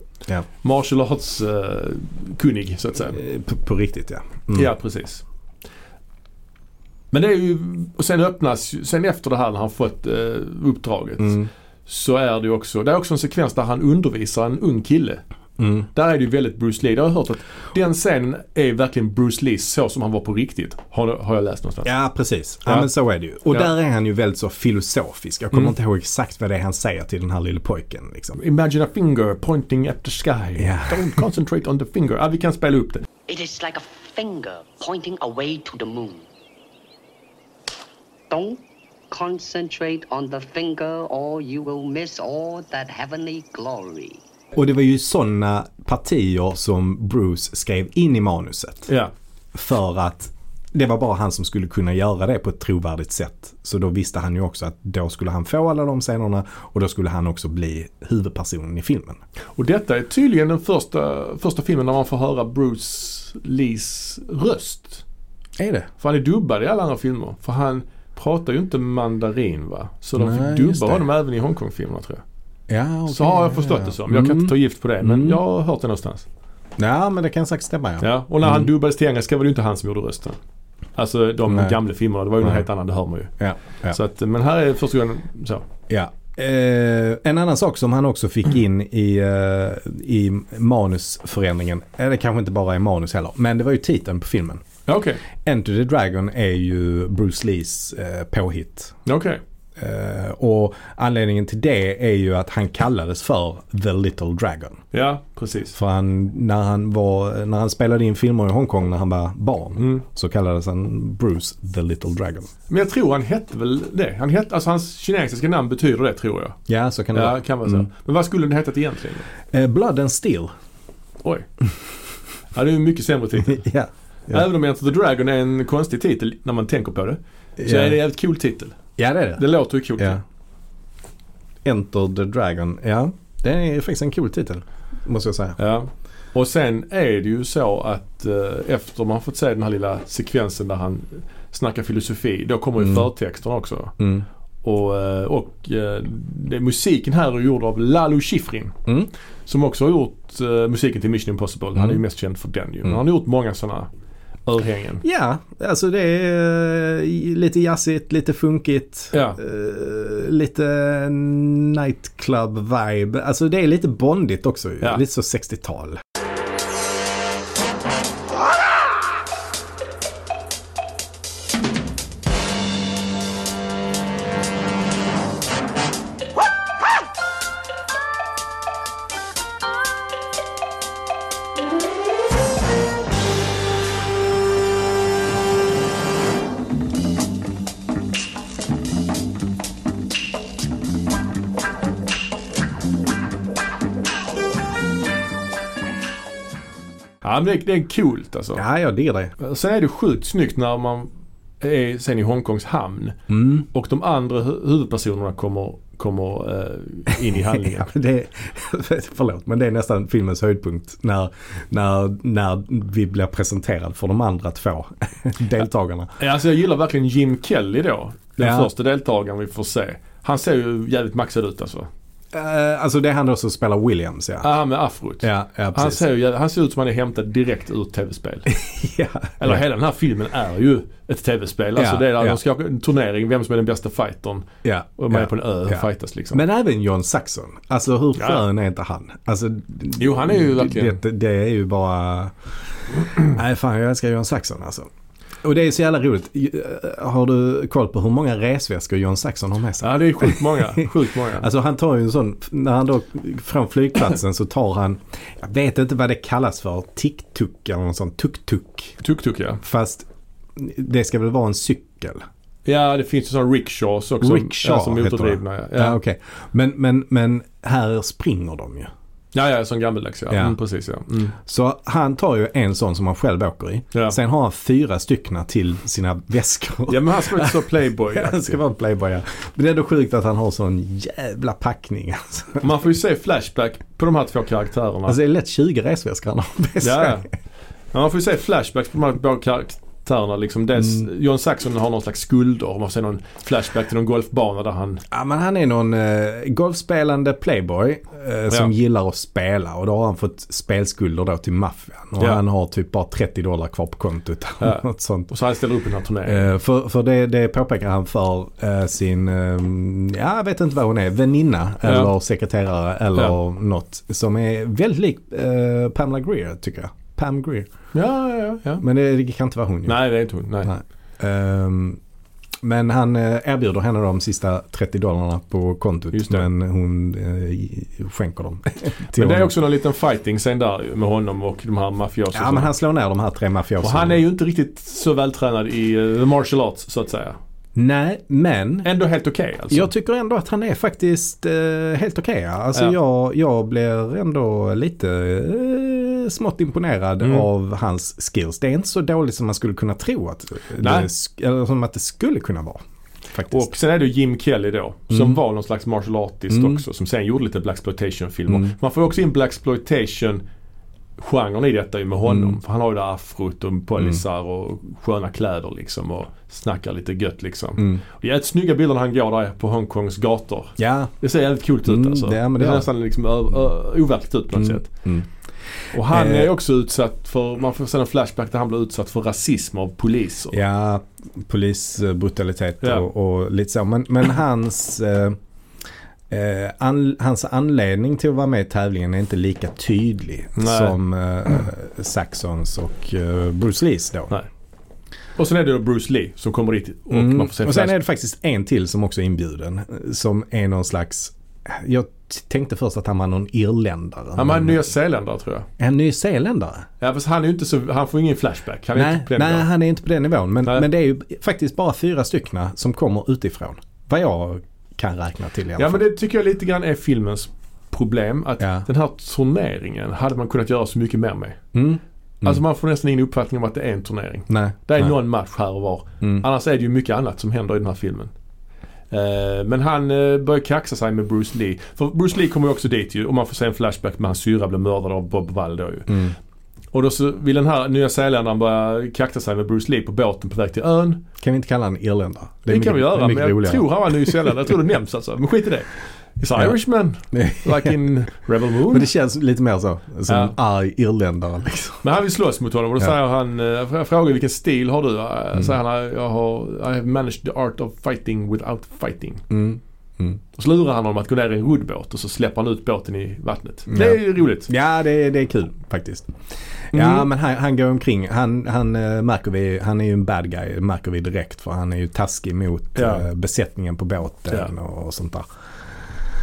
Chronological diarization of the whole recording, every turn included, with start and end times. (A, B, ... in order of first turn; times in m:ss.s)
0:00.6-0:03.2 A
0:03.1-0:04.7 B
0:04.5-0:05.2 A
0:07.1-0:15.2 A
0:11.2-0:11.5 B
0:15.6-0:15.9 B
0:15.9-0:21.9 A
0:21.8-0:28.4 B
0:28.4-0:33.0 A
0:30.6-0:31.2 B
0:33.3-0:36.3 C
0:38.3-0:44.2 C
0:44.5-0:48.9 B
0:49.5-0:59.2 B
0:59.6-1:05.0 A
1:05.6-1:05.9 B
1:06.0-1:12.2 A
1:10.2-1:11.1 B
1:12.7-1:15.4 B
1:13.1-1:16.2 A
1:16.8-1:18.7 B
1:18.0-1:20.4 A
1:21.0-1:23.3 A
1:21.5-1:21.8 B
1:23.4-1:24.0 B
1:23.9-1:25.6 A
1:25.9-1:34.6 B
1:34.9-1:35.2 A
1:35.4-1:39.0 B
1:39.0-1:39.4 A
1:39.8-1:44.8 B
1:44.9-1:45.8 A
1:45.7-1:52.5 B
1:49.8-1:50.0 A
1:52.7-1:56.6 A
1:56.7-1:57.9 B
1:57.1-1:59.3 A
1:59.5-2:00.5 B
2:02.5-2:03.6 A
2:03.4-2:04.4 B
2:04.3-2:08.8 A
2:07.6-2:08.0 B
2:09.0-2:09.4 B
2:09.4-2:10.2 A
2:11.6-2:15.6 B
2:15.6-2:24.0 A
2:22.8-2:23.1 B
2:24.0-2:24.2 B
2:24.6-2:28.8 A
2:29.5-2:33.9 A
2:34.4-2:35.0 A
2:35.0-2:46.0 B
2:39.1-2:39.4 A
3:17.2-3:18.6 A
3:18.5-3:19.3 B
3:19.4-3:21.1 A
3:21.6-3:27.9 A
3:23.3-3:23.6 B
3:27.3-3:36.2 B
3:36.2-3:41.9 A
3:38.4-3:38.7 B
3:42.3-3:44.5 B
3:44.4-3:48.5 A
3:45.2-3:46.0 B
3:48.5-3:49.6 B
3:49.4-3:56.4 A
3:51.8-3:52.4 B
3:54.6-4:02.3 B
3:58.2-3:58.4 A
4:00.0-4:01.0 A
4:02.9-4:04.9 B
4:05.4-4:19.0 B
4:09.8-4:11.5 A
4:19.0-4:19.6 A
4:19.6-4:22.2 B
4:22.6-4:26.0 A
4:24.2-4:28.9 B
4:29.3-4:31.4 A
4:30.3-4:30.6 B
4:31.4-4:42.7 B
4:36.9-4:38.6 A
4:42.6-4:45.2 A
4:45.1-4:47.2 B
4:46.8-4:47.3 A
4:47.9-4:55.0 A
4:50.8-4:51.0 B
4:55.1-5:05.3 B
5:04.6-5:06.4 A
5:06.2-5:17.7 B
5:11.8-5:12.1 A
5:17.9-5:18.8 A
5:18.8-5:20.0 B
5:19.8-5:20.7 A
5:20.6-5:22.0 B
5:22.6-5:29.5 B
5:26.1-5:26.5 A
5:29.1-5:32.7 A
5:32.3-5:34.2 B
5:33.8-5:37.4 A
5:37.7-5:38.9 B
5:38.8-5:39.9 A
5:39.7-5:52.8 B
5:47.2-5:47.5 A
5:50.8-5:51.1 A
5:53.3-5:53.7 B
5:53.5-6:00.4 A
5:55.1-5:55.4 B
5:56.5-5:56.8 B
5:58.5-5:58.7 B
6:01.2-6:14.9 A
6:02.2-6:02.6 B
6:10.8-6:11.1 B
6:11.8-6:12.9 B
6:14.6-6:15.2 B
6:15.9-6:20.6 A
6:16.1-6:16.5 B
6:20.5-6:25.4 B
6:22.8-6:23.1 A
6:26.3-6:34.3 B
6:30.6-6:30.9 A
6:35.4-6:38.0 A
6:37.1-6:44.8 B
6:44.4-6:45.7 A
6:45.8-6:46.9 B
6:47.0-6:49.7 A
6:48.9-6:56.0 B
6:55.8-7:01.6 A
6:58.6-6:58.9 B
7:01.7-7:02.6 B
7:02.4-7:08.3 A
7:04.5-7:05.1 B
7:09.1-7:16.3 A
7:16.1-7:16.3 B
7:16.9-7:21.2 A
7:21.4-7:24.6 B
7:22.7-7:29.1 A
7:27.3-7:28.0 B
7:28.9-7:32.0 B
7:30.3-7:30.5 A
7:32.0-7:39.5 A
7:39.5-7:40.4 B
7:40.5-7:44.7 A
7:43.9-7:46.3 B
7:46.9-7:55.5 B
7:46.9-7:47.3 A
7:52.9-7:53.2 A